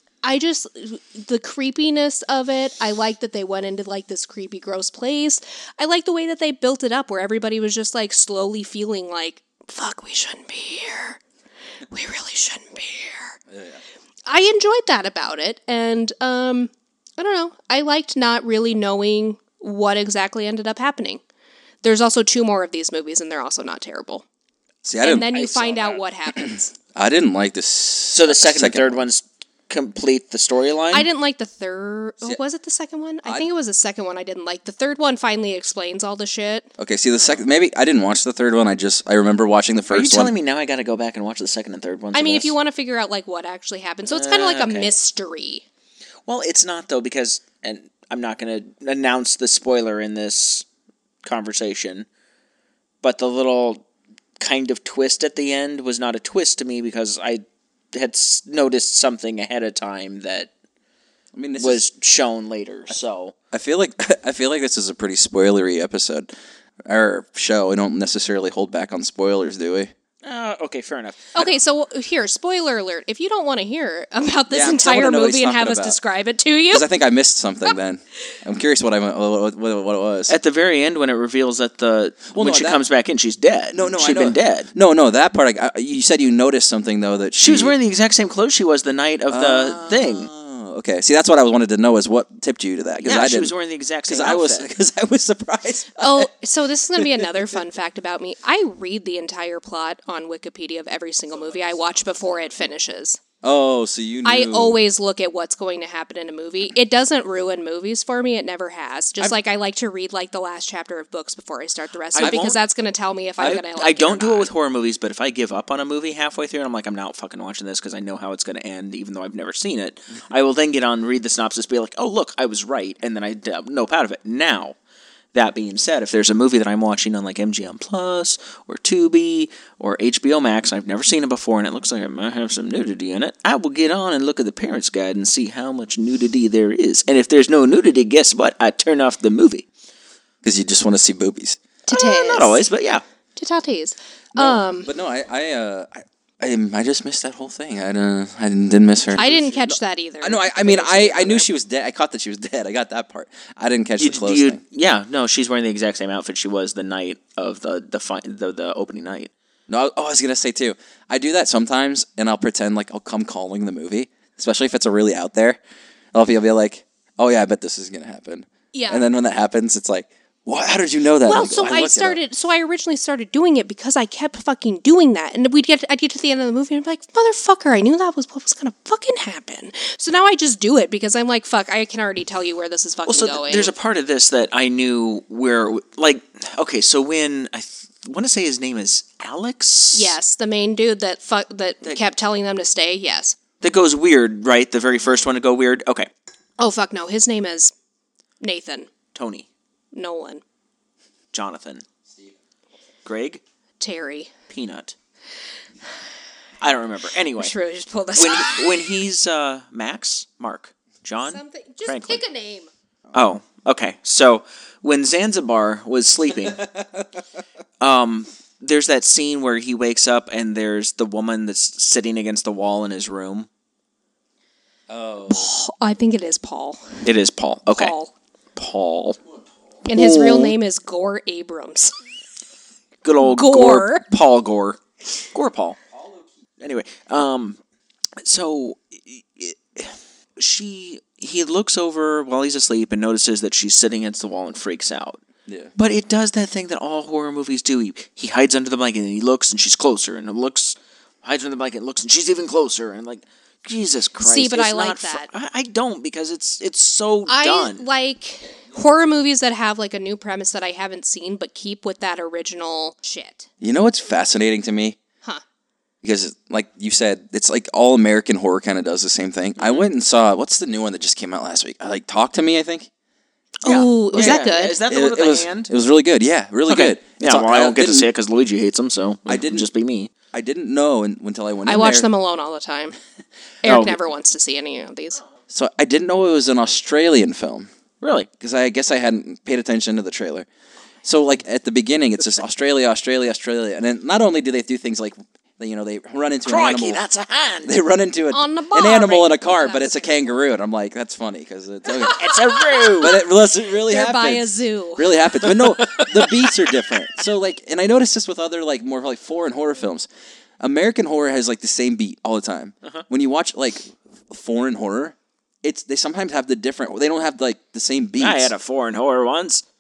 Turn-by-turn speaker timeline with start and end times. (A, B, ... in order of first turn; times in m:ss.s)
0:00.2-0:11.2 A
0:11.9-0:13.4 A
0:13.5-0:13.8 B
0:14.3-0:21.2 A
0:21.8-0:24.2 A
0:24.8-0:25.3 B
0:25.0-0:26.7 A
0:25.3-0:26.0 C
0:26.4-0:29.0 B
0:28.1-0:31.1 C
0:30.9-0:36.7 A
0:36.8-0:40.3 B
0:39.9-0:42.6 C
0:42.1-0:45.6 A
0:44.1-0:44.9 C
0:46.3-0:50.6 C
0:51.2-0:52.1 C
0:53.0-0:53.8 C
0:54.4-1:00.5 C
1:01.3-1:01.8 B
1:01.6-1:03.4 C
1:03.5-1:06.3 B
1:06.8-1:09.9 B
1:10.2-1:11.5 C
1:11.4-1:16.9 A
1:14.5-1:16.0 B
1:16.7-1:20.4 B
1:20.3-1:24.7 C
1:22.3-1:22.8 B
1:23.7-1:27.8 B
1:27.4-1:30.3 C
1:29.3-1:33.5 B
1:33.0-1:34.7 C
1:34.1-1:36.3 B
1:36.0-1:43.2 A
1:37.0-1:37.5 B
1:41.5-1:41.9 C
1:43.4-1:44.8 B
1:44.2-1:54.5 A
1:52.2-1:52.6 C
1:53.4-2:04.8 C
2:05.3-2:19.7 C
2:20.4-2:21.6 B
2:21.9-2:22.6 A
2:21.9-2:23.0 C
2:23.4-2:24.9 A
2:24.4-2:29.2 B
2:29.2-2:31.5 A
2:29.2-2:29.5 C
2:30.2-2:34.6 B
2:34.0-2:39.3 C
2:39.7-2:45.6 B
2:46.1-2:52.2 B
2:48.7-2:49.1 A
2:51.2-3:03.7 A
3:03.1-3:10.2 C
3:09.9-3:13.4 A
3:13.6-3:16.1 C
3:16.6-3:17.7 A
3:18.4-3:18.9 A
3:19.1-3:19.5 C
3:19.9-3:20.4 A
3:21.3-3:21.8 C
3:23.0-3:23.4 C
3:23.8-3:24.3 A
3:24.5-3:25.0 C
3:26.6-3:27.5 C
3:27.4-3:28.9 A
3:28.2-3:32.2 C
3:31.2-3:32.7 A
3:33.1-3:36.6 C
3:36.5-3:37.2 B
3:37.8-3:43.5 C
3:44.9-3:45.5 B
3:45.3-3:47.0 A
3:47.0-3:48.0 C
3:47.7-3:48.1 A
3:48.6-3:49.2 C
3:49.9-3:51.9 A
3:49.9-3:50.6 C
3:53.0-3:54.8 C
3:53.2-3:54.0 A
3:55.3-3:55.8 C
3:56.6-3:57.6 C
3:58.2-4:05.2 C
4:05.5-4:05.7 B
4:05.8-4:17.8 C
4:14.2-4:15.3 A
4:17.3-4:23.5 A
4:23.6-4:25.0 B
4:26.0-4:32.9 B
4:29.6-4:29.8 C
4:33.6-4:34.8 A
4:33.6-4:35.7 C
4:34.2-4:38.1 B
4:36.7-4:40.1 C
4:39.3-4:39.7 B
4:40.3-4:42.1 B
4:41.7-4:43.0 A
4:43.6-4:45.2 A
4:43.6-4:44.0 C
4:45.5-4:47.7 B
4:48.0-4:48.3 C
4:48.4-4:50.5 B
4:51.0-4:57.0 B
4:56.4-4:57.7 C
4:57.6-5:10.1 B
4:58.3-5:00.4 A
5:02.0-5:03.2 C
5:02.0-5:05.1 A
5:05.4-5:07.0 C
5:10.6-5:18.5 B
5:18.2-5:19.6 C